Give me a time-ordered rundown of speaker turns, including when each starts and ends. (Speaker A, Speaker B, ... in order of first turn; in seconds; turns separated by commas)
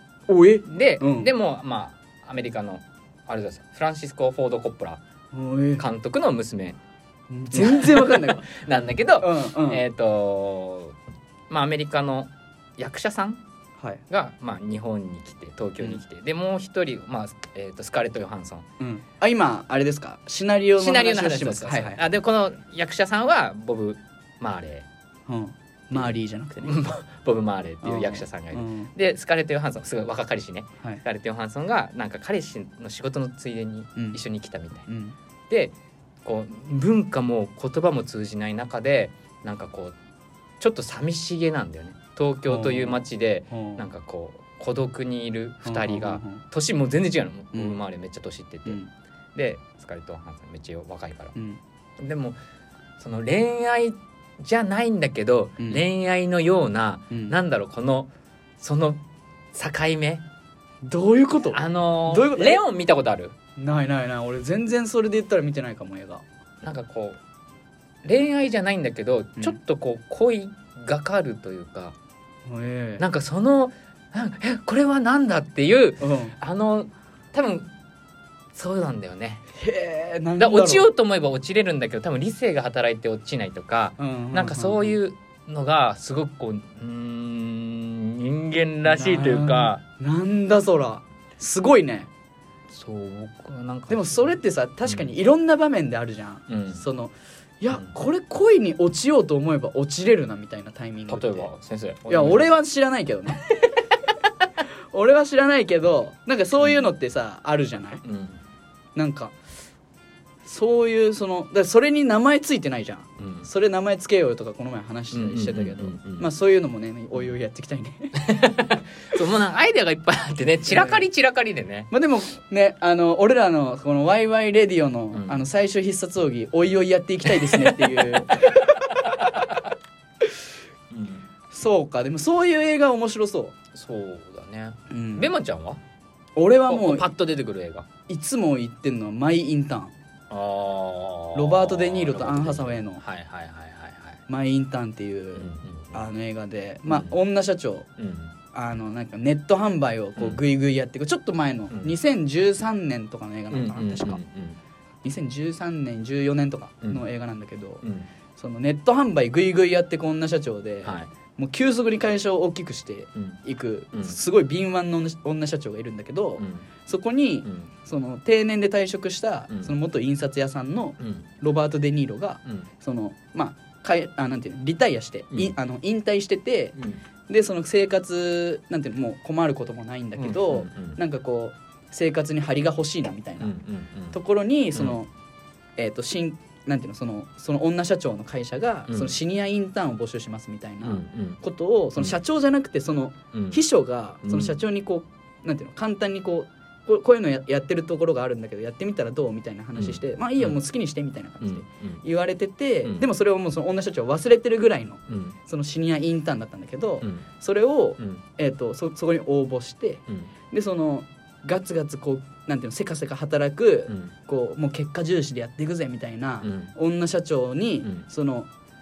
Speaker A: 0.3-1.3, Speaker B: 0.7-5.0, Speaker A: 5.3-5.8, Speaker B: 5.8-6.8, Speaker A: 7.3-8.5, Speaker B: 7.5-11.0, Speaker A: 9.2-9.8, Speaker B: 11.5-13.4, Speaker A: 13.8-14.0, Speaker B: 14.1-18.7, Speaker A: 18.8-22.0, Speaker B: 20.8-24.9, Speaker A: 25.3-26.9, Speaker B: 25.9-34.9, Speaker A: 27.8-28.9, Speaker A: 34.0-34.2, Speaker A: 34.9-35.2, Speaker B: 35.5-35.7, Speaker B: 36.2-40.0, Speaker B: 40.6-48.8, Speaker A: 42.5-43.8, Speaker A: 45.6-46.4, Speaker A: 47.5-47.8, Speaker B: 49.4-51.4, Speaker A: 51.4-51.6, Speaker B: 52.0-52.4, Speaker B: 53.0-59.0, Speaker B: 59.5-60.2, Speaker A: 60.8-62.6, Speaker B: 61.5-63.4, Speaker A: 63.6-66.2, Speaker B: 66.6-67.2, Speaker B: 68.0-72.0, Speaker A: 72.5-73.0, Speaker B: 73.0-77.7, Speaker A: 76.0-76.4, Speaker B: 78.5-79.5, Speaker A: 79.6-80.9, Speaker B: 80.4-89.8, Speaker A: 84.0-85.0, Speaker A: 88.9-92.1, Speaker B: 92.7-95.1, Speaker A: 93.9-101.5, Speaker B: 96.5-96.8, Speaker B: 101.1-102.5, Speaker A: 102.1-103.5, Speaker A: 104.9-108.0, Speaker B: 108.0-108.4, Speaker A: 109.0-109.3, Speaker A: 110.4-118.3, Speaker B: 113.2-113.5, Speaker B: 115.1-116.3, Speaker B: 118.2-121.9, Speaker A: 120.7-121.1, Speaker A: 121.9-128.8, Speaker B: 125.1-125.4, Speaker B: 127.3-129.7, Speaker B: 130.9-131.3, Speaker A: 131.5-133.5, Speaker B: 133.7-135.8, Speaker A: 134.9-135.3, Speaker A: 136.4-137.1, Speaker B: 136.7-137.9, Speaker A: 138.1-139.9, Speaker B: 140.3-144.2, Speaker A: 141.3-143.0, Speaker A: 144.3-147.9, Speaker B: 145.4-146.0, Speaker B: 146.9-147.2, Speaker B: 148.0-148.3, Speaker A: 148.5-154.2, Speaker B: 153.5-154.6, Speaker A: 155.0-157.8, Speaker B: 157.8-158.1, Speaker A: 158.4-176.8, Speaker B: 160.8-161.1, Speaker B: 166.4-166.7, Speaker B: 167.4-167.7, Speaker B: 171.0-171.3, Speaker B: 176.8-177.0, Speaker A: 177.3-183.5, Speaker B: 180.2-181.0, Speaker B: 183.4-184.2, Speaker A: 184.1-185.1, Speaker A: 185.8-218.5, Speaker B: 188.9-189.2, Speaker B: 190.8-191.4, Speaker B: 193.3-193.6, Speaker B: 194.2-194.6, Speaker B: 199.8-200.6, Speaker B: 201.4-202.0, Speaker B: 205.1-205.4, Speaker B: 213.9-214.1, Speaker B: 216.4-216.7